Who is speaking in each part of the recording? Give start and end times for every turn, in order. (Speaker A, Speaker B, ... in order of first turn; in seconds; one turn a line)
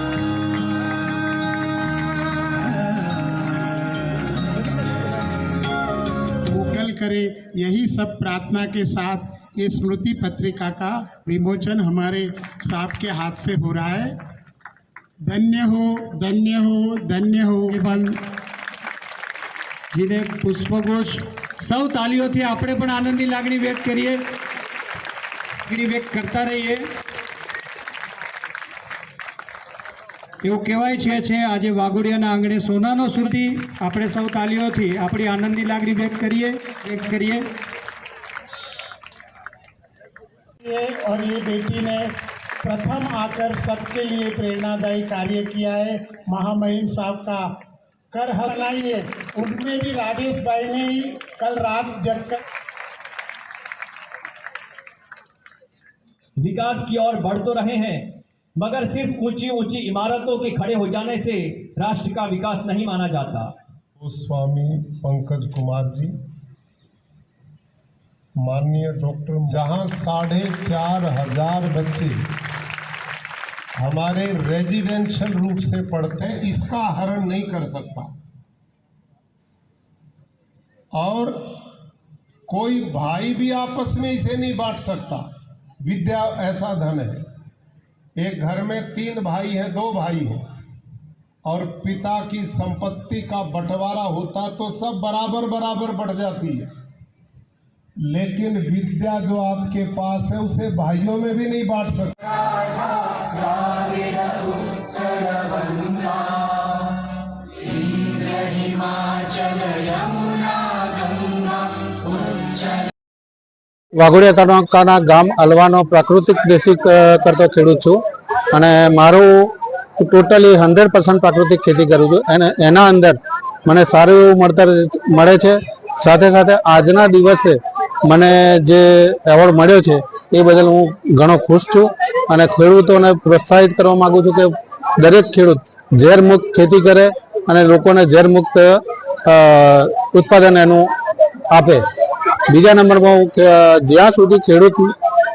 Speaker A: 6.4-14.2
Speaker A: 15.3-17.9
Speaker B: 17.7-18.0
Speaker B: 19.9-24.2
Speaker B: 25.7-26.9
Speaker B: 30.4-37.5
Speaker A: 40.6-42.1
Speaker A: 42.6-47.5
Speaker A: 48.1-52.4
Speaker C: 56.4-58.0
Speaker C: 58.6-63.5
Speaker D: 64.0-66.1
Speaker D: 68.4-72.2
Speaker D: 73.8-78.1
Speaker D: 81.0-81.6
Speaker D: 82.5-85.2
Speaker D: 85.8-87.2
Speaker D: 88.2-90.4
Speaker D: 91.5-96.7
Speaker D: 98.0-102.2
Speaker E: 113.9-140.9
Speaker E: 141.5-141.8
Speaker E: 142.5-144.9